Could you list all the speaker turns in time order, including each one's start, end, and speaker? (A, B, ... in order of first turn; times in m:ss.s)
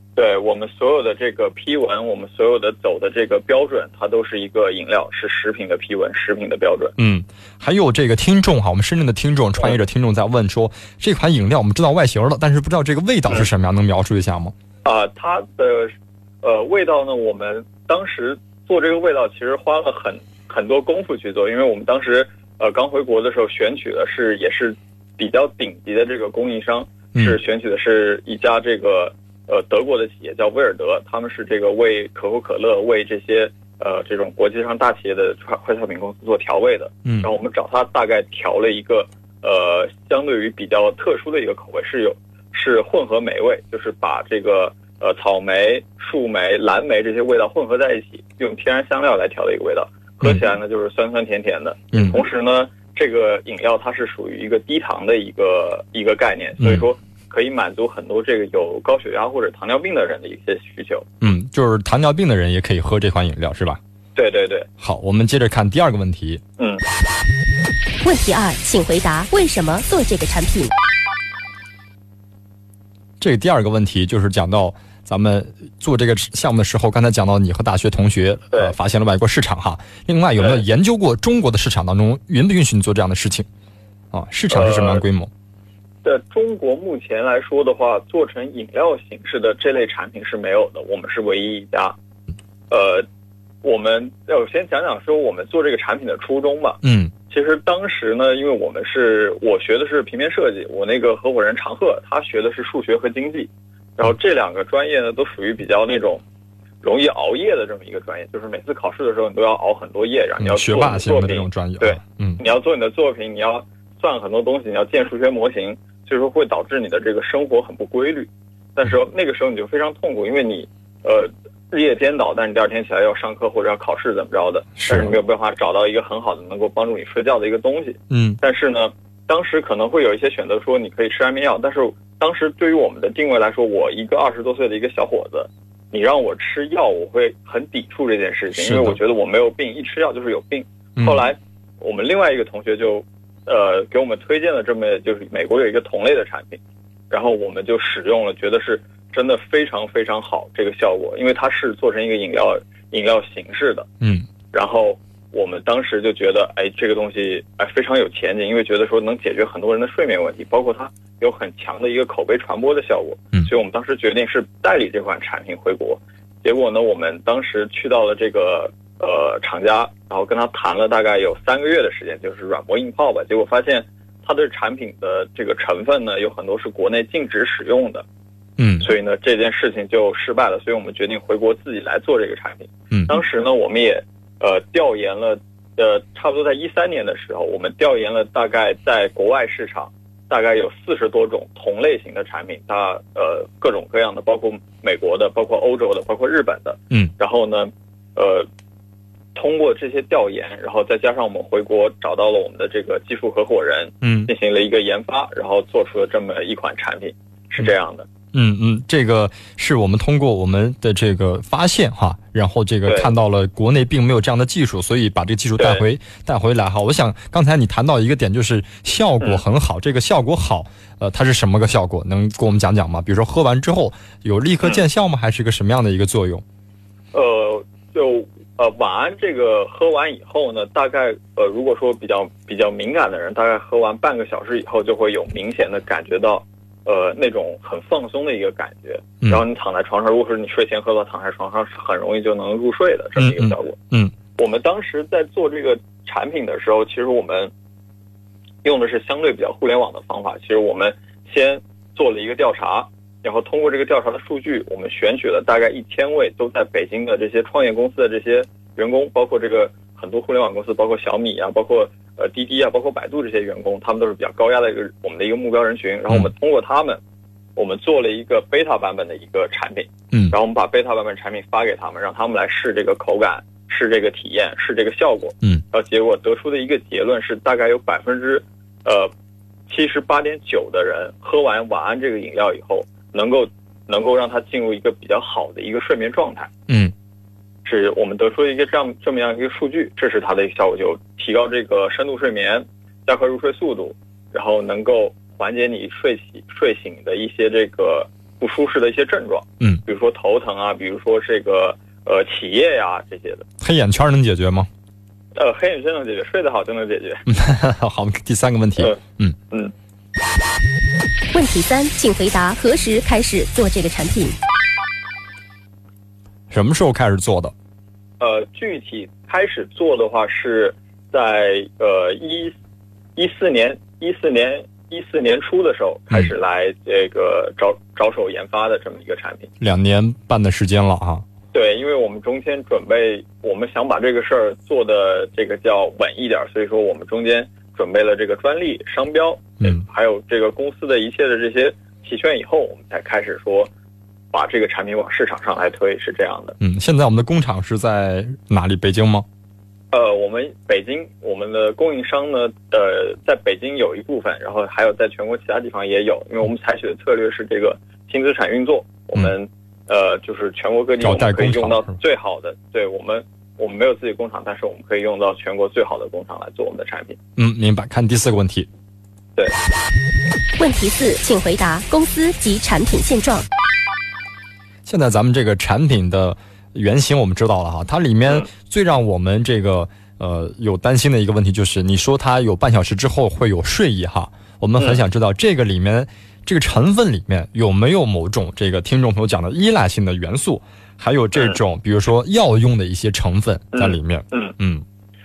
0:00.2-0:06.9 A
0:07.0-0:14.5 B
0:14.8-1:01.1 A
0:51.9-0:52.2 B
0:56.6-0:56.8 B
1:01.2-1:03.8 B
1:04.2-1:04.7 A
1:04.8-1:06.4 B
1:06.6-1:06.8 A
1:08.0-1:10.7 C
1:13.2-1:23.5 B
1:24.1-1:25.3 B
1:24.5-1:25.0 A
1:26.0-1:31.9 A
1:32.7-1:33.0 A
1:33.6-1:46.2 A
1:36.8-1:37.1 B
1:46.8-2:26.6 A
1:50.4-1:52.4 B
2:04.8-2:05.1 B
2:08.1-2:08.4 B
2:18.5-2:19.0 B
2:21.0-2:21.2 B
2:27.1-2:33.9 A
2:34.0-2:34.2 B
2:34.5-2:58.0 A
2:58.6-2:58.9 B
2:58.8-3:18.5 A
3:02.9-3:03.2 B
3:19.3-3:28.1 A
3:24.0-3:24.3 B
3:28.3-3:46.4 B
3:32.8-3:33.1 A
3:35.6-3:35.8 A
3:47.1-4:03.8 A
4:03.2-4:04.1 B
4:04.4-4:07.5 A
4:08.6-4:27.0 A
4:27.6-4:39.1 A
4:39.7-4:46.5 A
4:46.7-4:46.9 B
4:47.6-5:03.4 A
5:03.6-5:04.7 B
5:05.3-5:07.2 A
5:07.3-5:09.4 B
5:11.3-5:14.4 C
5:16.5-5:17.5 B
5:18.2-5:22.5 A
5:23.2-5:29.5 A
5:29.6-5:31.2 B
5:31.5-5:43.7 A
5:44.3-5:46.6 A
5:46.6-5:49.2 B
5:49.9-6:07.2 A
6:01.0-6:02.0 B
6:07.4-6:08.7 B
6:10.6-6:13.5 C
6:14.8-6:34.8 B
6:33.7-6:34.5 A